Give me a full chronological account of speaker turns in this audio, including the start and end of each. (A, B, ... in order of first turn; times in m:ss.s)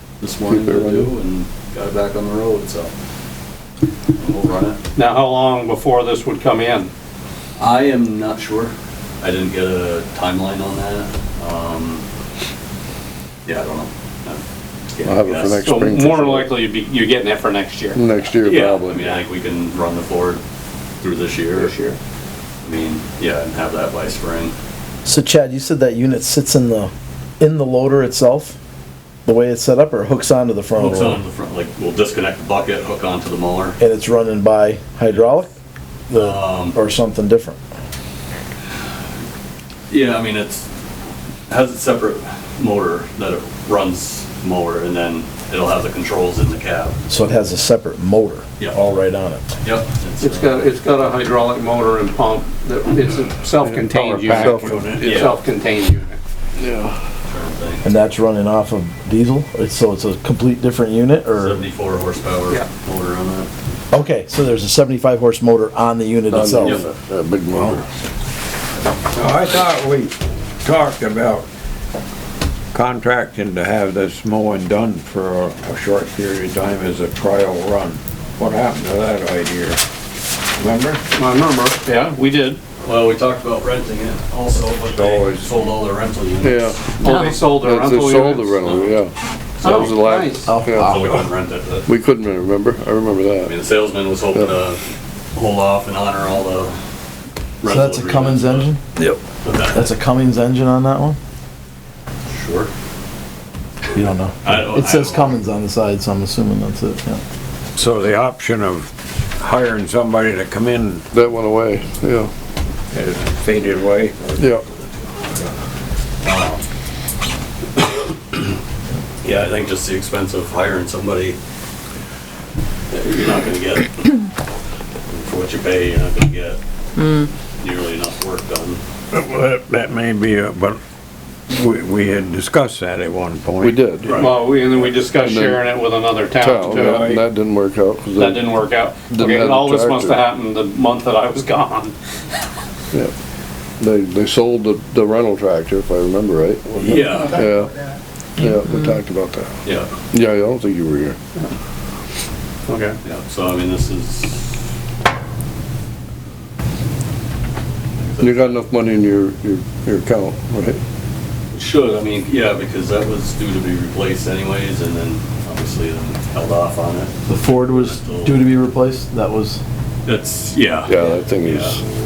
0:00.2-0:02.9 A
0:00.5-0:01.1 B
0:04.1-0:04.8 A
0:05.0-0:06.9 C
0:07.6-0:12.0 A
0:13.4-0:15.6 A
0:15.0-0:16.6 B
0:15.6-0:18.0 C
0:18.0-0:19.2 B
0:18.4-0:20.4 A
0:21.0-0:21.8 A
0:21.5-0:22.0 C
0:22.6-0:24.6 A
0:25.0-0:28.6 D
0:29.2-0:31.2 D
0:30.8-0:33.8 A
0:33.8-0:35.5 D
0:36.1-0:37.6 D
0:36.1-0:36.8 A
0:39.9-0:40.7 A
0:41.5-0:47.0 A
0:47.1-0:49.4 D
0:49.6-0:50.7 A
0:50.2-0:56.2 C
0:53.6-0:55.3 B
0:54.0-0:55.0 E
0:55.0-0:55.4 A
0:56.6-0:57.0 B
0:57.2-0:57.9 A
0:57.8-1:01.6 D
1:01.3-1:03.5 A
1:03.9-1:06.8 D
1:06.3-1:07.8 B
1:06.5-1:06.9 A
1:09.1-1:11.5 E
1:12.7-1:19.8 E
1:20.6-1:21.0 E
1:21.2-1:22.6 C
1:22.8-1:26.8 A
1:25.0-1:25.4 B
1:26.4-1:29.1 B
1:27.0-1:28.6 C
1:28.6-1:29.0 A
1:29.6-1:30.5 C
1:29.6-1:29.9 A
1:29.6-1:31.0 B
1:30.4-1:30.9 D
1:30.7-1:31.9 A
1:31.9-1:33.5 B
1:33.4-1:34.8 A
1:35.4-1:36.8 A
1:37.6-1:38.7 A
1:37.6-1:38.8 D
1:39.4-1:39.9 A
1:39.7-1:41.2 D
1:42.3-1:42.7 A
1:43.9-1:47.2 D
1:44.4-1:45.4 A
1:47.8-1:51.0 E
1:51.1-1:52.3 B
1:52.9-1:54.4 E
1:56.2-1:56.6 A
1:58.0-1:58.4 A
1:59.2-2:01.4 A
2:02.9-2:04.2 A
2:05.1-2:06.6 A
2:07.6-2:08.8 A
2:09.1-2:10.8 E
2:11.5-2:13.9 E
2:13.6-2:14.2 B
2:14.0-2:14.4 A
2:14.1-2:17.2 C
2:15.2-2:15.7 B
2:16.4-2:18.5 B
2:16.5-2:17.3 E
2:18.2-2:22.0 C
2:19.1-2:20.2 B
2:23.8-2:27.7 B
2:26.8-2:27.4 A
2:28.4-2:29.5 B
2:29.6-2:29.9 A
2:30.1-2:31.2 B
2:32.7-2:33.0 C
2:33.0-2:34.5 A
2:38.0-2:38.6 A
2:38.2-2:40.8 B
2:41.5-2:48.5 A
2:47.3-2:49.6 D
2:50.0-2:51.8 A
2:50.9-2:51.8 B